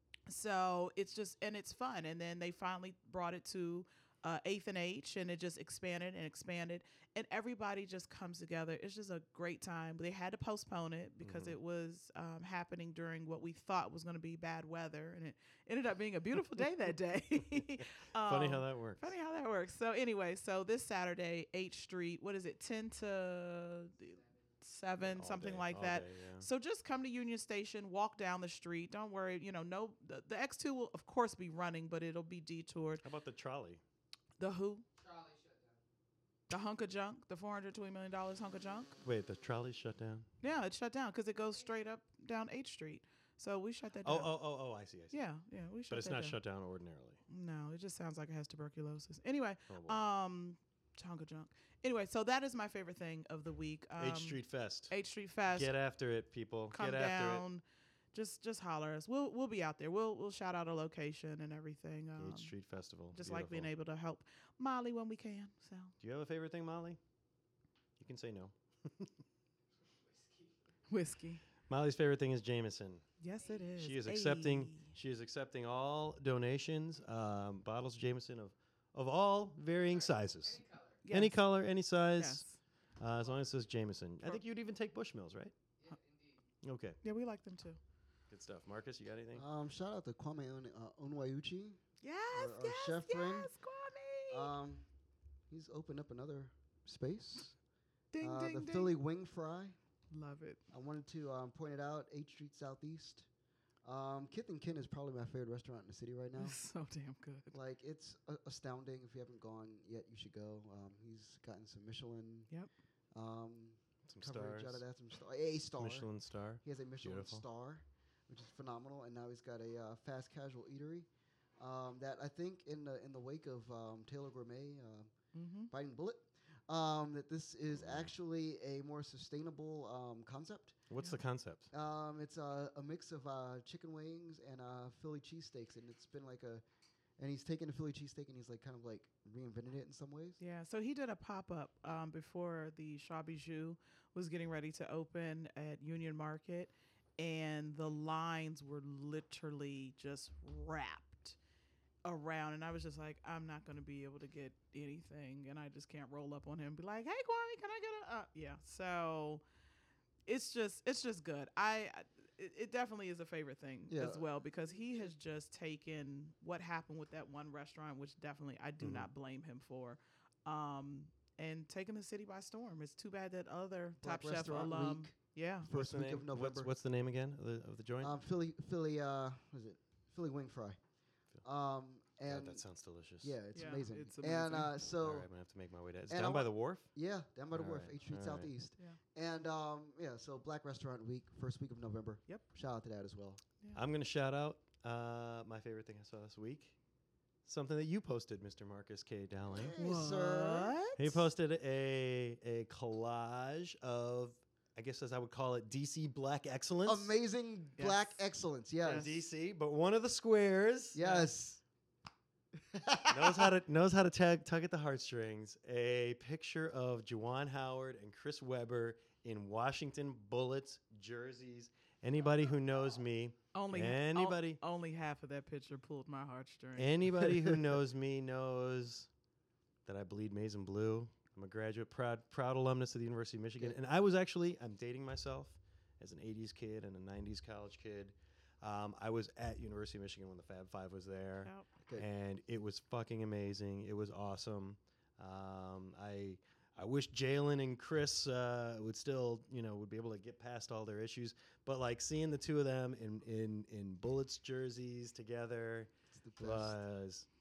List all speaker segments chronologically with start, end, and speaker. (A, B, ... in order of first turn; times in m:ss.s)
0:00.3-0:33.0 A
0:11.2-0:11.6 B
0:17.8-0:19.1 B
0:23.9-0:24.6 C
0:25.0-0:26.5 B
0:33.0-0:33.8 B
0:34.4-0:34.8 A
0:35.0-0:35.8 C
0:36.5-0:38.9 A
0:39.0-0:40.3 B
0:40.4-0:44.3 A
0:44.0-0:45.1 B
0:45.1-0:46.4 A
0:45.9-0:47.2 B
0:47.3-0:55.7 A
0:49.7-0:50.0 B
0:54.0-0:54.9 B
0:55.5-0:57.4 B
0:56.7-0:57.6 A
0:58.1-1:02.5 A
1:02.2-1:03.7 B
1:03.1-1:05.9 A
1:06.0-1:07.0 B
1:08.0-1:09.1 B
1:09.8-1:10.8 C
1:10.9-1:11.4 A
1:11.7-1:13.0 B
1:13.2-1:14.9 A
1:13.4-1:13.7 C
1:13.8-1:22.4 B
1:19.7-1:21.0 C
1:21.0-1:21.4 A
1:22.2-1:22.6 A
1:23.0-1:25.5 B
1:23.2-1:23.5 C
1:25.8-1:26.5 C
1:26.6-1:27.0 B
1:27.0-1:27.8 A
1:28.3-1:29.4 B
1:29.3-1:31.8 D
1:32.0-1:34.5 A
1:32.3-1:33.5 D
1:34.3-1:34.8 D
1:35.5-1:37.5 D
1:38.1-1:39.0 A
1:38.2-1:39.8 D
1:40.1-1:40.6 A
1:40.7-1:43.3 D
1:43.8-1:46.6 D
1:46.4-1:47.6 A
1:47.5-1:52.5 D
1:53.1-1:56.1 D
1:54.1-1:54.8 B
1:55.8-1:57.4 B
1:56.6-2:05.1 D
2:05.3-2:05.7 A
2:05.7-2:10.8 D
2:10.9-2:11.7 B
2:11.7-2:16.6 D
2:17.2-2:20.4 D
2:20.4-2:31.4 A
2:32.0-2:39.4 A
2:40.2-2:55.7 A
2:43.9-2:44.3 D
2:48.8-2:49.1 B
2:54.0-2:56.7 D
2:55.7-2:58.1 B
2:58.0-3:00.8 D
3:01.4-3:02.6 D
3:02.2-3:03.4 B
3:03.2-3:05.3 D
3:03.5-3:04.7 A
3:04.9-3:06.9 B
3:06.1-3:13.4 D
3:07.5-3:08.5 B
3:13.7-3:16.7 B
3:17.4-3:19.7 B
3:19.4-3:20.7 D
3:19.8-3:21.2 A
3:21.0-3:27.1 B
3:26.8-3:29.1 D
3:27.8-3:28.2 A
3:28.8-3:29.1 A
3:28.9-3:31.0 B
3:30.9-3:31.6 D
3:31.0-3:31.3 A
3:32.6-3:33.5 D
3:33.1-3:44.6 B
3:43.5-3:47.3 A
3:46.8-3:49.1 B
3:49.8-4:17.3 B
4:16.1-4:16.8 D